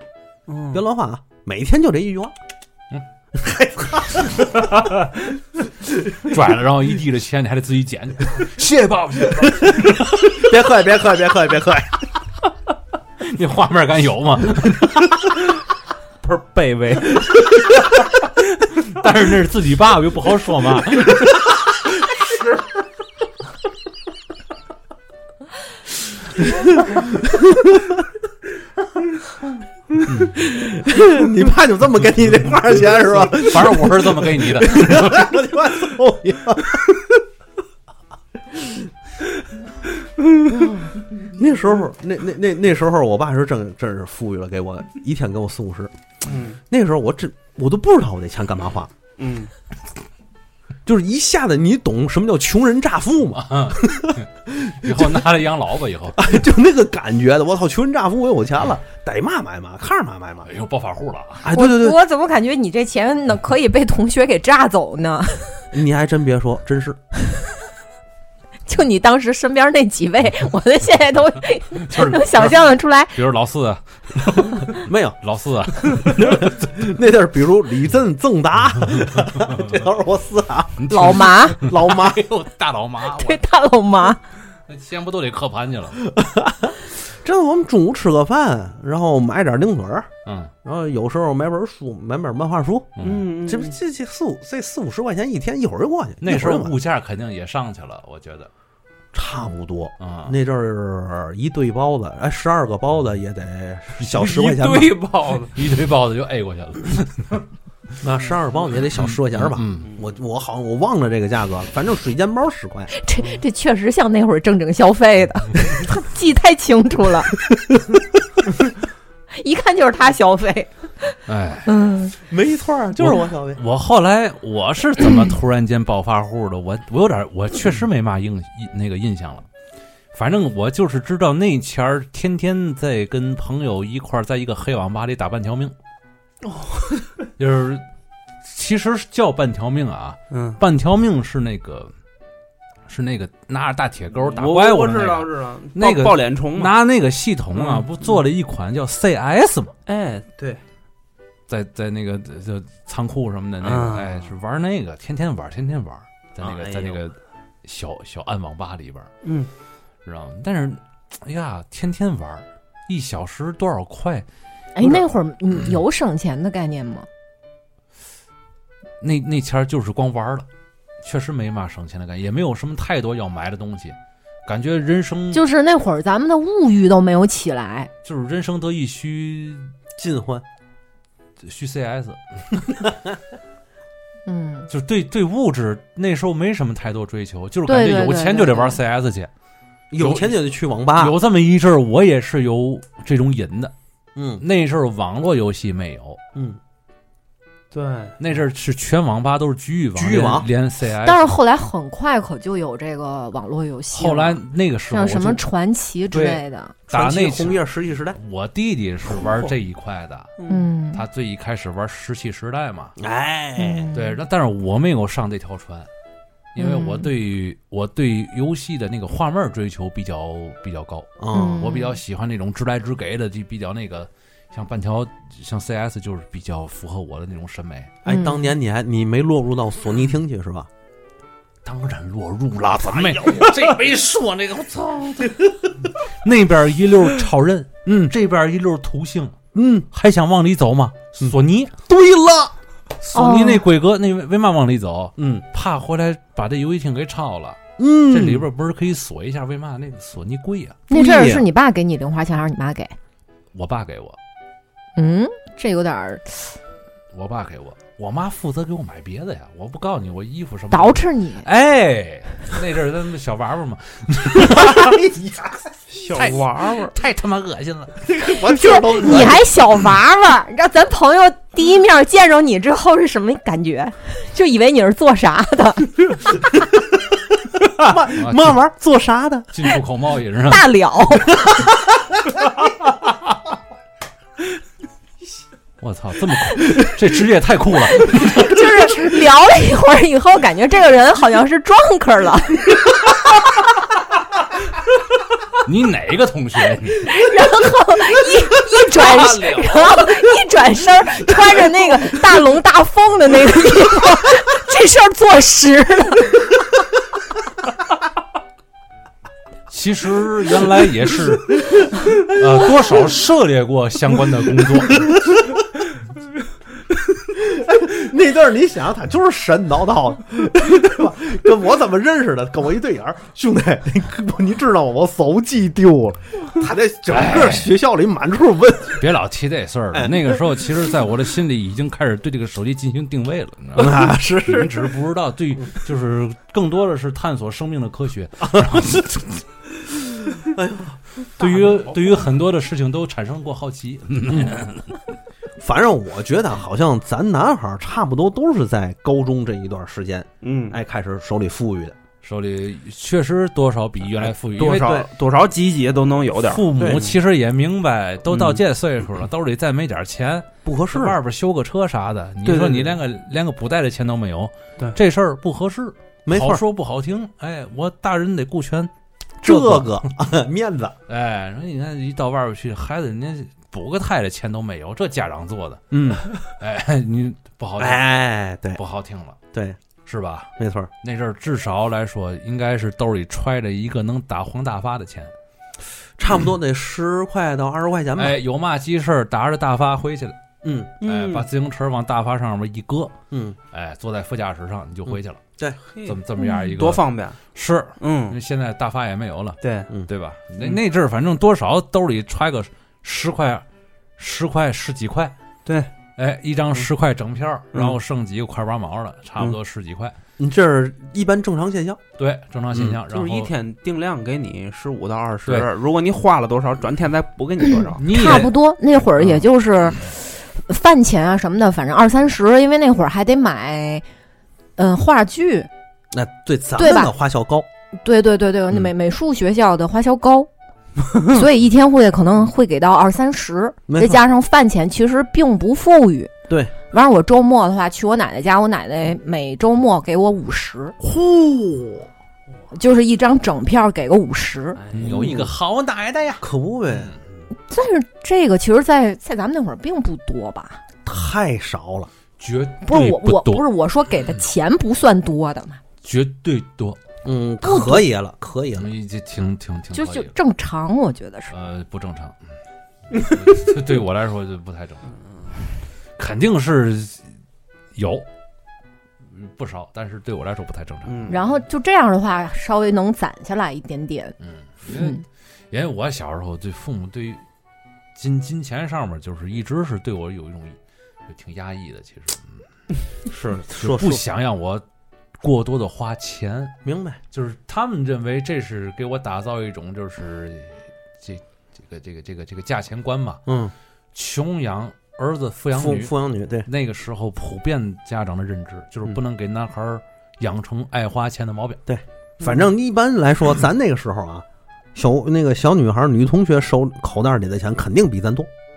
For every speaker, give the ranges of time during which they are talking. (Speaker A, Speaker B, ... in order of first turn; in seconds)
Speaker A: 0.5-0.8, 16.2-17.3, 46.2-46.6, 49.2-49.5, 93.0-93.8, 104.0-105.5, 136.4-137.1, 140.3-140.6, 144.2-146.7, 147.5-148.2, 149.8-150.6, 153.6-154.3, 156.4-157.0, 159.2-159.5, 197.7-198.2, 210.4-210.7, 265.9-266.9, 350.4-350.8, 354.6-357.1, 358.3-358.6, 362.4-362.9, 391.0-391.5, 395.9-397.4, 398.0-398.4, 399.6-399.9, 405.6-405.9, 412.8-418.3, 444.8-445.4, 471.0-471.4
Speaker B: 0.7-2.3, 3.3-4.7, 10.2-12.0, 26.9-27.9, 30.3-37.2, 41.2-45.9, 46.7-48.9, 50.8-55.3, 56.1-60.5, 61.4-62.0, 65.7-67.0, 74.7-75.2, 76.0-80.9, 81.6-82.2, 86.0-90.1, 90.6-96.7, 99.1-104.9, 108.0-112.9, 122.3-123.6, 180.0-180.4, 189.9-191.2, 194.1-194.4, 199.9-200.5, 206.9-208.2, 213.0-213.9, 221.2-221.6, 228.0-230.7, 232.9-233.5, 237.9-238.1, 239.5-239.9, 241.9-242.5, 245.2-245.4, 247.8-248.4, 250.9-251.4, 264.4-265.7, 268.1-269.5, 277.7-279.7, 317.2-329.1, 329.9-330.2, 333.7-334.9, 338.5-338.8, 340.3-342.2, 345.6-351.9, 354.7-355.1, 356.8-357.1, 360.6-361.2, 366.2-366.6, 369.4-370.9, 375.9-376.2, 377.8-378.8, 379.5-379.8, 380.6-380.9, 386.2-388.4, 390.6-390.9, 393.3-393.6, 410.4-412.0, 426.1-427.7, 433.9-434.2, 441.0-442.1, 444.9-445.5, 446.4-447.1, 451.0-452.1, 457.2-458.9, 483.3-484.2, 486.8-487.2, 493.5-493.7, 495.7-496.7, 501.9-508.5
Speaker C: 6.1-10.2, 13.2-15.1, 18.9-21.3, 30.1-30.3, 33.2-35.3, 53.4-56.2, 60.5-61.5, 71.9-72.6, 73.1-74.7, 75.2-76.5, 80.8-83.4, 84.7-86.0, 90.2-90.5, 93.0-93.2, 96.2-98.5, 100.0-100.4, 105.5-107.4, 108.9-109.9, 121.3-121.7, 123.0-129.5, 130.1-135.7, 137.4-137.8, 138.4-141.9, 142.9-149.7, 151.5-159.1, 160.0-164.2, 169.0-170.4, 171.0-175.4, 178.0-179.7, 181.4-182.7, 184.7-189.3, 189.9-190.4, 190.9-193.7, 194.4-196.2, 198.2-201.4, 203.9-205.4, 206.1-207.6, 208.2-210.3, 210.9-212.9, 213.9-215.9, 216.5-228.0, 231.6-239.4, 239.9-241.7, 243.0-250.8, 253.5-254.2, 257.1-265.0, 266.1-268.0, 278.1-278.6, 279.5-280.7, 285.8-288.6, 295.6-297.1, 298.9-299.7, 309.7-315.2, 327.1-327.7, 329.0-339.4, 341.4-345.0, 352.2-355.0, 356.4-368.9, 369.4-370.0, 371.1-378.1, 378.8-379.4, 380.0-385.3, 388.2-390.4, 391.0-393.1, 393.7-395.4, 396.0-403.6, 404.2-405.3, 406.2-410.1, 412.2-413.5, 417.9-418.5, 444.9-446.4, 452.4-453.6, 456.0-457.0, 458.8-460.4, 461.5-462.4, 463.1-465.1, 466.2-467.3, 467.9-468.3, 469.3-471.4, 474.4-477.4, 478.1-482.6, 483.8-484.8, 485.4-486.8, 487.3-493.4, 494.1-496.1, 496.6-501.8
Speaker D: 61.5-65.6, 68.7-73.2, 80.9-81.7, 83.1-84.2, 112.9-117.3, 119.3-122.1, 164.7-167.1, 175.3-177.9, 184.2-184.7, 187.7-188.8, 201.0-206.7, 210.5-211.0, 213.6-214.2, 216.6-217.1, 221.3-222.0, 228.1-228.3, 243.1-243.6, 250.9-252.9, 254.9-256.6, 260.7-261.5, 268.2-276.0, 280.5-281.4, 288.0-292.8, 297.0-306.5, 418.1-424.0, 424.8-425.7, 426.8-427.1, 428.0-430.5, 431.1-436.3, 436.9-440.9, 442.7-444.8, 447.7-450.8, 452.8-455.8, 457.6-458.0, 459.9-461.5, 471.3-474.4, 474.9-475.2